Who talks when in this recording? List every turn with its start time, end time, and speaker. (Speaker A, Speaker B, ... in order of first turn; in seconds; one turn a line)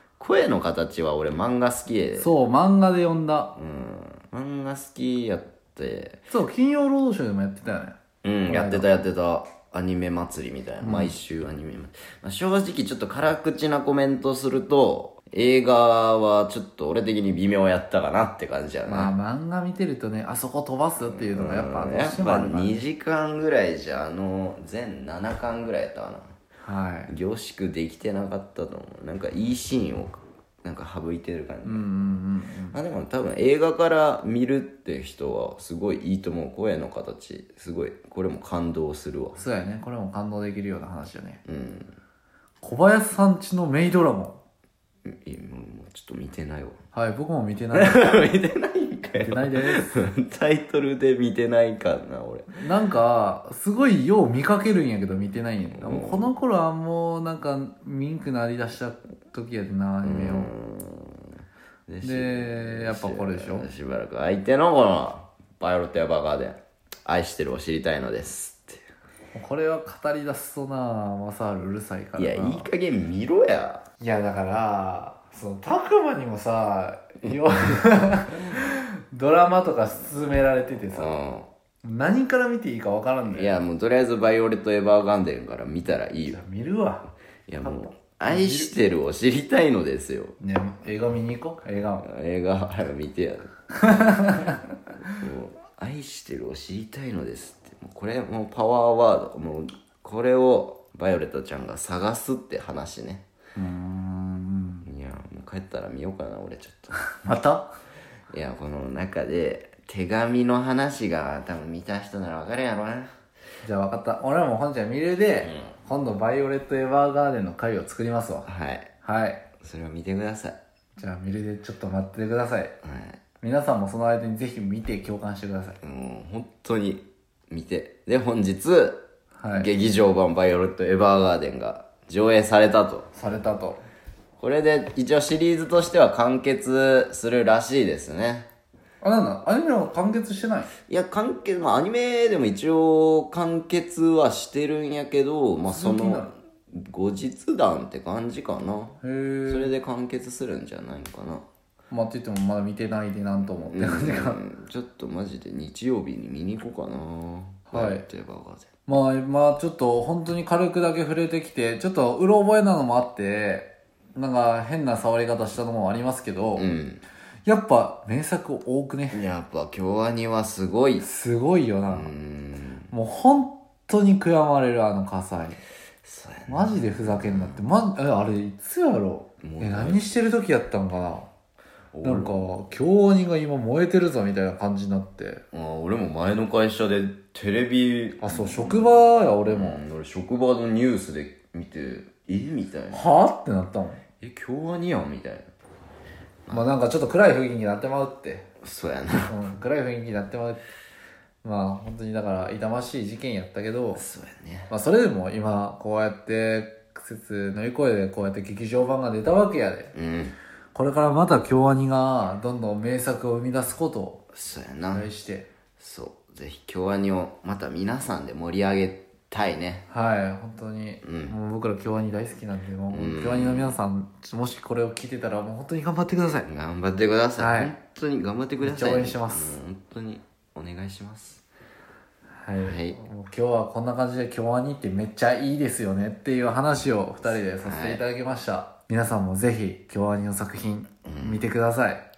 Speaker A: 0.2-2.3
Speaker B: 2.2-3.5
Speaker A: 3.5-6.3
Speaker B: 6.3-8.9
Speaker A: 8.2-19.1
Speaker B: 10.8-11.1
Speaker B: 18.9-22.8
Speaker A: 21.1-26.3
Speaker B: 26.6-27.1
Speaker A: 27.1-31.8
Speaker B: 31.6-32.8
Speaker A: 32.7-39.4
Speaker B: 39.4-41.4
Speaker A: 41.5-41.9
Speaker B: 42.6-44.4
Speaker A: 45.0-46.8
Speaker B: 46.9-48.1
Speaker A: 47.7-52.5
Speaker B: 49.2-50.1
Speaker B: 52.5-60.5
Speaker A: 55.8-56.3
Speaker A: 60.0-61.3
Speaker A: 61.9-68.8
Speaker B: 62.0-63.7
Speaker B: 69.3-72.7
Speaker A: 72.2-73.8
Speaker B: 74.0-81.2
Speaker A: 80.9-81.5
Speaker B: 81.8-83.6
Speaker A: 83.2-86.4
Speaker B: 86.3-87.1
Speaker A: 87.5-90.4
Speaker B: 87.6-88.7
Speaker B: 90.4-92.0
Speaker A: 92.0-93.5
Speaker B: 93.8-94.6
Speaker A: 95.2-103.2
Speaker B: 103.5-104.8
Speaker A: 104.8-107.0
Speaker B: 107.0-107.7
Speaker A: 108.3-113.1
Speaker B: 113.6-118.5
Speaker A: 118.4-118.9
Speaker B: 119.0-119.4
Speaker A: 119.6-120.6
Speaker B: 121.0-122.7
Speaker A: 122.8-123.2
Speaker B: 123.4-125.8
Speaker A: 125.8-133.1
Speaker B: 129.4-129.7
Speaker B: 133.1-133.8
Speaker A: 134.4-138.5
Speaker B: 139.0-140.7
Speaker A: 140.9-151.4
Speaker B: 145.6-146.3
Speaker B: 149.0-149.7
Speaker B: 151.9-154.4
Speaker A: 153.6-158.7
Speaker B: 157.7-158.1
Speaker B: 158.9-166.7
Speaker A: 166.6-167.0
Speaker B: 167.4-169.2
Speaker A: 169.1-171.1
Speaker B: 171.0-172.1
Speaker A: 171.9-172.9
Speaker B: 172.9-175.6
Speaker A: 176.0-177.6
Speaker B: 176.5-181.3
Speaker A: 179.4-180.2
Speaker A: 181.9-182.5
Speaker B: 182.0-185.4
Speaker A: 185.5-193.1
Speaker B: 188.2-189.8
Speaker B: 192.9-194.0
Speaker A: 194.2-195.5
Speaker B: 196.5-198.5
Speaker A: 198.6-199.5
Speaker B: 199.3-200.6
Speaker B: 201.4-204.0
Speaker A: 203.9-204.7
Speaker B: 204.7-209.9
Speaker A: 209.9-210.3
Speaker B: 210.7-214.2
Speaker A: 214.3-215.1
Speaker B: 214.9-215.5
Speaker A: 215.8-219.8
Speaker B: 219.9-226.5
Speaker A: 221.0-221.3
Speaker A: 222.9-223.8
Speaker A: 226.4-231.4
Speaker B: 227.4-227.7
Speaker B: 228.6-229.6
Speaker B: 232.4-242.0
Speaker A: 232.6-233.0
Speaker A: 237.6-238.0
Speaker A: 241.0-241.5